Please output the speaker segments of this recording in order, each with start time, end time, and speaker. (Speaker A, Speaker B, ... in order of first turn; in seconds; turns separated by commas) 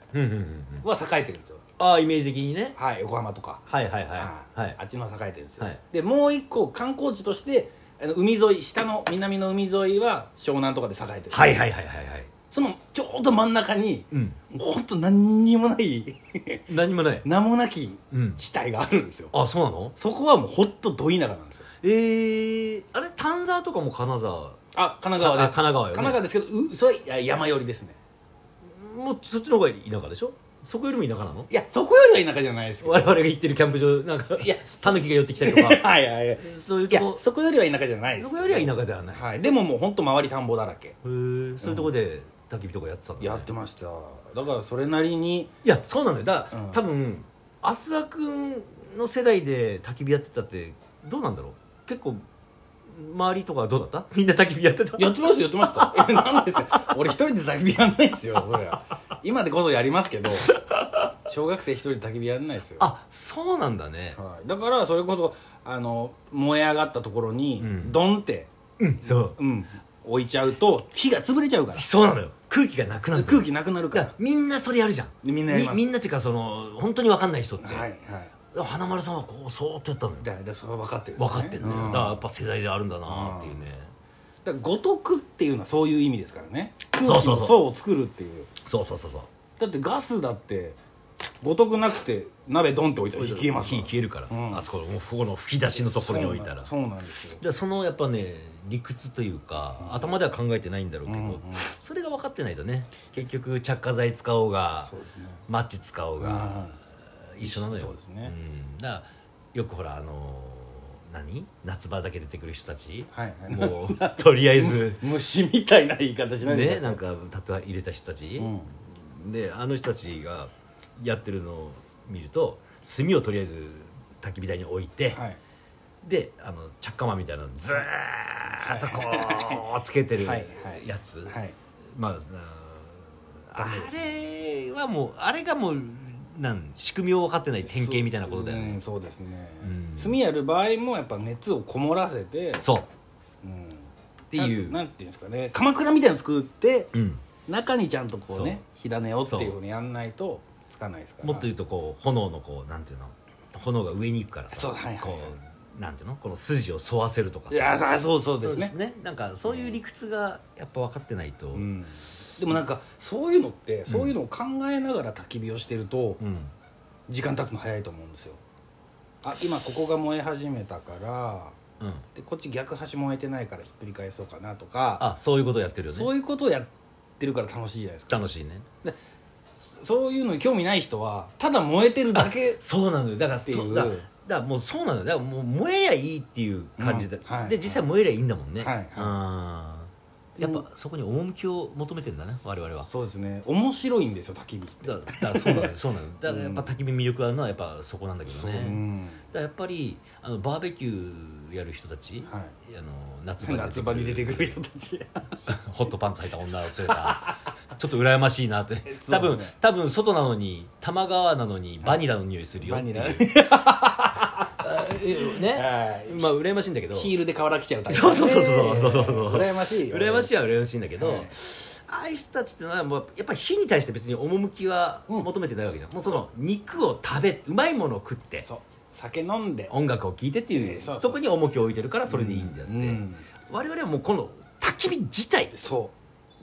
Speaker A: 0.1-0.8, Speaker B: 0.8-1.6, Speaker A: 1.8-2.8, Speaker B: 2.8-11.6, Speaker A: 3.7-4.8, Speaker A: 11.3-12.3, Speaker B: 12.5-16.7, Speaker A: 14.1-14.4, Speaker A: 16.7-17.3, Speaker B: 17.2-19.3, Speaker A: 18.1-18.4, Speaker A: 19.3-20.0, Speaker B: 20.0-21.7, Speaker A: 21.8-24.6, Speaker B: 24.7-28.0, Speaker A: 25.2-26.2, Speaker A: 28.7-31.5, Speaker B: 31.5-33.3, Speaker A: 32.8-37.2, Speaker B: 34.4-41.0, Speaker A: 38.1-39.5, Speaker A: 41.0-43.5, Speaker B: 41.6-41.9, Speaker B: 43.2-45.5, Speaker A: 45.6-52.2, Speaker B: 46.5-46.8, Speaker A: 52.9-56.9, Speaker B: 55.0-60.5, Speaker A: 60.4-61.1, Speaker B: 61.2-62.9, Speaker A: 62.8-64.2, Speaker B: 64.2-71.9, Speaker A: 67.6-68.0, Speaker A: 68.8-69.4, Speaker A: 71.7-77.9, Speaker B: 73.1-74.1, Speaker B: 75.2-75.9, Speaker B: 77.6-78.3, Speaker A: 78.5-80.3, Speaker B: 80.2-82.2, Speaker A: 81.2-83.9, Speaker B: 83.0-83.7, Speaker B: 84.4-88.5, Speaker A: 87.0-87.7, Speaker A: 88.6-89.3, Speaker B: 89.6-90.8, Speaker B: 91.4-94.7, Speaker A: 93.1-96.7, Speaker B: 95.7-97.4, Speaker A: 97.4-104.9, Speaker B: 99.8-100.2, Speaker B: 101.1-101.7, Speaker B: 104.8-105.5, Speaker A: 105.5-106.8, Speaker B: 106.2-106.8, Speaker A: 107.3-115.1, Speaker B: 107.4-108.3, Speaker B: 113.1-117.0, Speaker A: 116.4-125.2, Speaker B: 118.4-118.8, Speaker B: 125.1-125.4, Speaker A: 126.0-131.4, Speaker B: 128.5-129.6, Speaker B: 130.2-131.6, Speaker A: 131.9-138.8, Speaker B: 133.6-134.2, Speaker B: 137.6-142.7, Speaker A: 139.6-140.2, Speaker A: 142.6-142.9, Speaker B: 143.4-146.9, Speaker A: 144.3-144.8, Speaker A: 146.9-147.2, Speaker B: 147.5-151.5, Speaker A: 148.3-148.6, Speaker A: 149.3-149.6, Speaker A: 151.2-157.6, Speaker B: 154.5-155.4, Speaker B: 157.5-158.8, Speaker A: 158.4-161.7, Speaker B: 159.5-159.8, Speaker B: 161.5-166.2, Speaker A: 163.9-164.2, Speaker A: 166.2-166.5, Speaker B: 167.1-168.4, Speaker B: 169.2-171.6, Speaker A: 171.8-172.1, Speaker B: 172.1-175.1, Speaker A: 175.0-176.1, Speaker B: 175.9-178.2, Speaker A: 178.1-178.9, Speaker B: 179.7-182.6, Speaker A: 182.1-192.9, Speaker B: 183.5-184.1, Speaker B: 186.8-187.8, Speaker B: 188.6-189.2, Speaker B: 190.4-190.7, Speaker B: 192.8-195.7, Speaker A: 194.8-204.6, Speaker B: 196.3-196.7, Speaker B: 198.3-199.2, Speaker B: 202.2-202.6, Speaker B: 203.4-205.4, Speaker A: 205.5-213.4, Speaker B: 206.9-207.4, Speaker B: 208.9-209.6, Speaker B: 212.6-216.4, Speaker A: 214.6-217.1, Speaker B: 216.9-220.3, Speaker A: 217.9-228.5, Speaker B: 221.0-221.3, Speaker B: 228.4-229.8, Speaker A: 229.7-235.6, Speaker B: 230.5-231.3, Speaker B: 232.1-233.3, Speaker B: 235.5-235.9